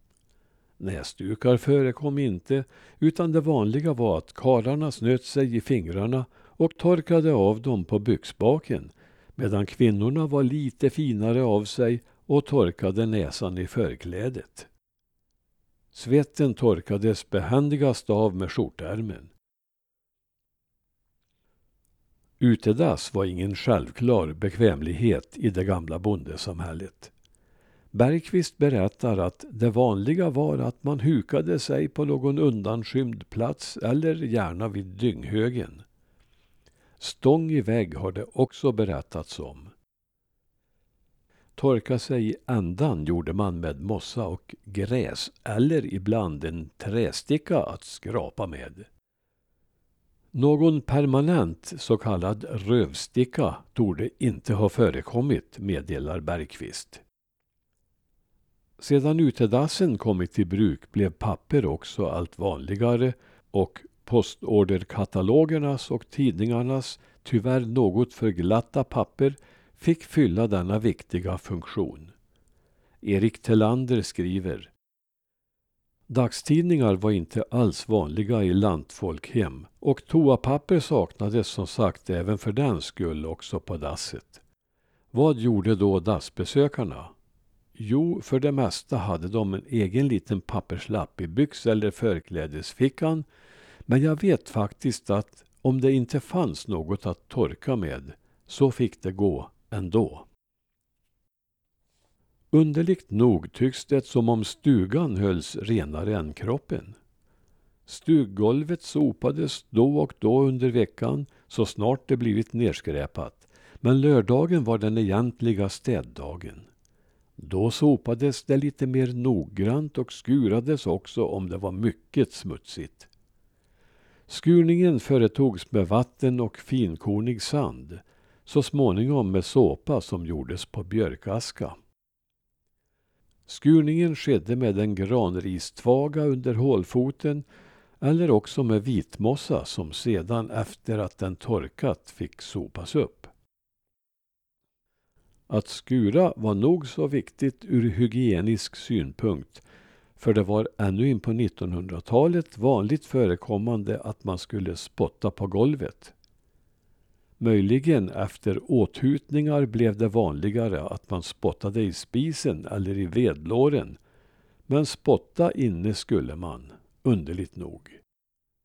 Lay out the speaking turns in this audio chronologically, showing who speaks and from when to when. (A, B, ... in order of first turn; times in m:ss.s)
0:00.8-0:14.7 A
0:15.9-0:19.3 A
0:22.4-0:27.1 A
0:27.9-0:35.8 A
0:37.0-0:39.7 A
0:41.6-0:48.9 A
0:50.3-0:57.0 A
0:58.8-1:12.1 A
1:13.0-1:14.7 A
1:16.1-1:24.4 A
1:25.1-1:27.1 A
1:27.8-1:33.2 A
1:33.9-1:40.3 A
1:42.5-1:47.0 A
1:47.9-1:56.7 A
1:57.4-2:03.1 A
2:04.3-2:11.7 A
2:13.5-2:17.4 A
2:18.0-2:23.3 A
2:25.5-2:29.6 A
2:30.2-2:36.1 A
2:37.4-2:44.0 A
2:44.7-2:48.0 A